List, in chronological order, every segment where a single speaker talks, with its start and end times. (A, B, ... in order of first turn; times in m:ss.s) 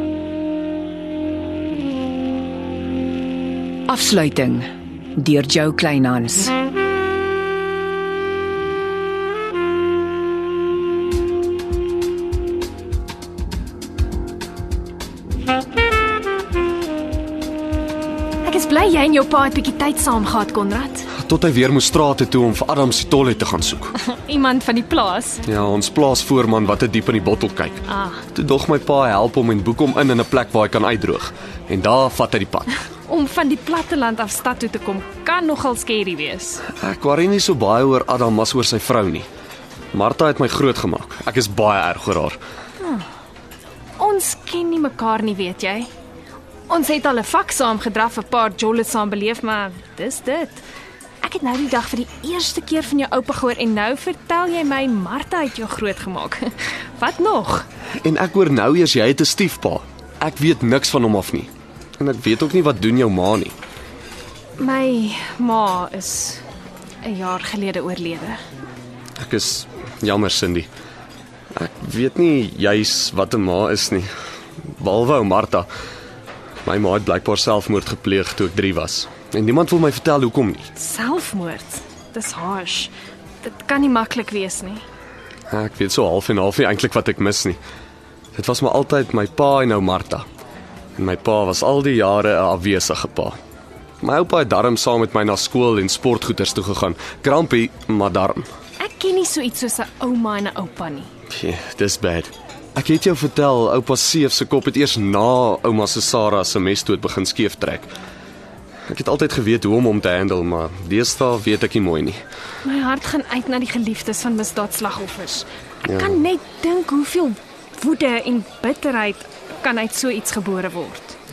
0:03.9-0:06.5 A
0:18.4-0:21.1 B
0:21.2-0:23.9 C
0:24.1-0:25.4 B
0:25.4-0:32.7 C
0:27.9-0:28.2 B
0:33.1-0:36.6 B
0:36.8-0:39.3 C
0:39.9-0:42.4 C
0:44.0-0:45.9 B
0:46.7-0:50.6 B
0:51.2-0:56.4 B
0:57.0-0:57.6 B
0:58.0-1:03.5 C
1:04.6-1:06.4 B
1:07.0-1:08.4 B
1:09.2-1:10.7 C
1:11.5-1:14.1 C
1:14.7-1:15.7 C
1:16.6-1:20.7 C
1:20.8-1:24.8 B
1:25.5-1:27.6 C
1:28.3-1:30.2 C
1:31.0-1:33.4 C
1:34.0-1:38.5 C
1:38.8-1:41.1 B
1:41.3-1:47.9 C
1:48.9-1:52.2 C
1:52.6-2:01.1 B
1:55.8-1:56.2 C